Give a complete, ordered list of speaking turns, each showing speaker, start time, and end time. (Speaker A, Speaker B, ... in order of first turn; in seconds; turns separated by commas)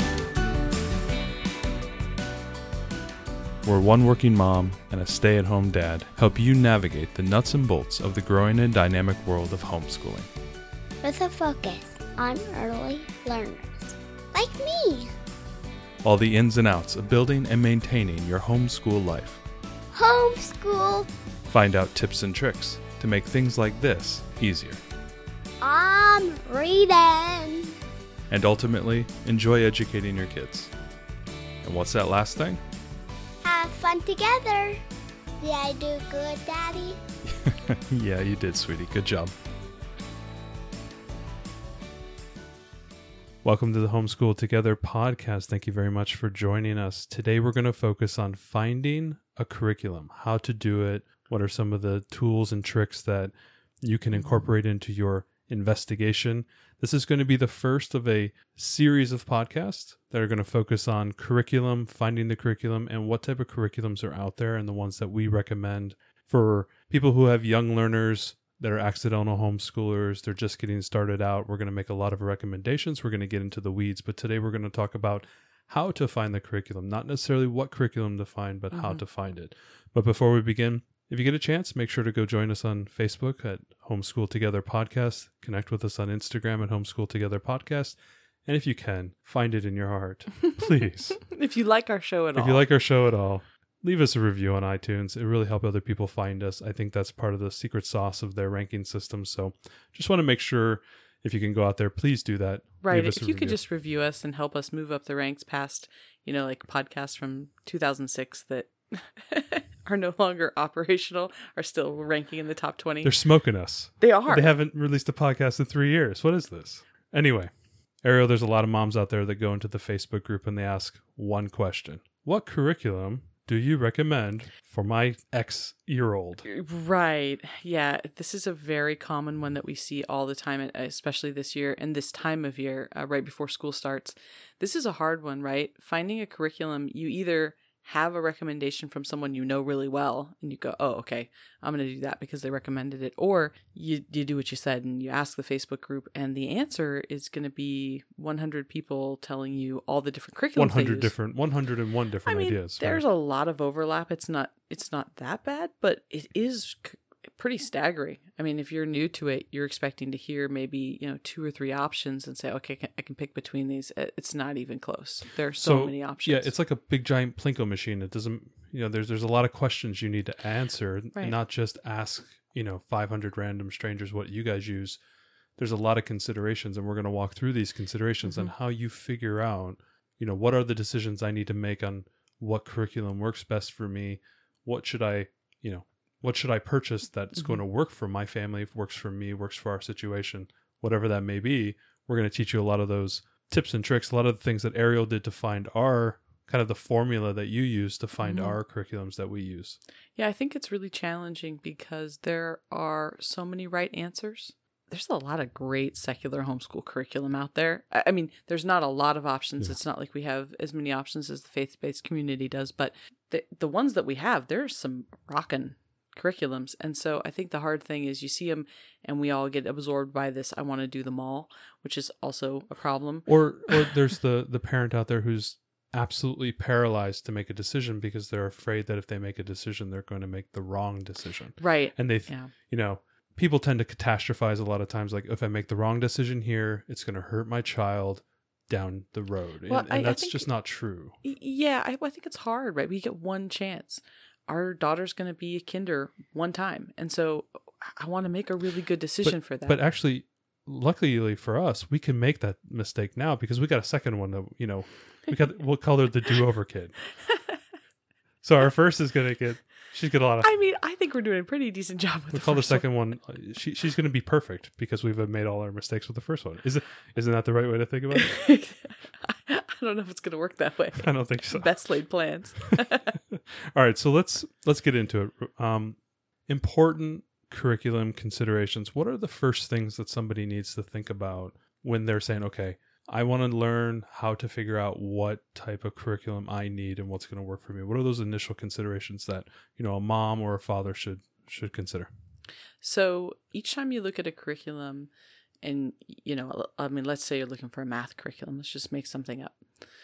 Speaker A: 3.6-10.3, Speaker B: 11.0-15.1, Speaker A: 16.0-19.4, Speaker B: 19.9-21.1, Speaker A: 21.5-24.8, Speaker B: 25.6-27.8, Speaker A: 28.3-30.7, Speaker A: 31.6-32.6, Speaker B: 33.4-34.8, Speaker B: 35.4-37.0, Speaker A: 37.4-39.3, Speaker A: 43.4-91.2, Speaker C: 78.7-79.0, Speaker C: 91.2-92.6, Speaker A: 92.3-103.6, Speaker C: 102.8-113.1, Speaker A: 113.0-126.4, Speaker C: 114.0-114.5, Speaker C: 126.5-151.1, Speaker A: 150.6-153.0, Speaker C: 152.2-166.5, Speaker A: 165.6-175.0, Speaker A: 175.6-199.8, Speaker C: 178.2-178.5, Speaker C: 187.3-187.6, Speaker C: 198.2-198.6, Speaker C: 200.2-223.9, Speaker A: 223.3-241.2, Speaker C: 231.6-232.5, Speaker C: 239.7-240.5, Speaker C: 241.2-249.8, Speaker A: 249.2-257.0, Speaker A: 258.4-260.5, Speaker C: 260.4-262.9, Speaker A: 262.3-268.4, Speaker C: 268.1-273.1, Speaker A: 271.0-271.7, Speaker A: 273.3-292.1, Speaker C: 292.8-295.1, Speaker C: 295.6-299.6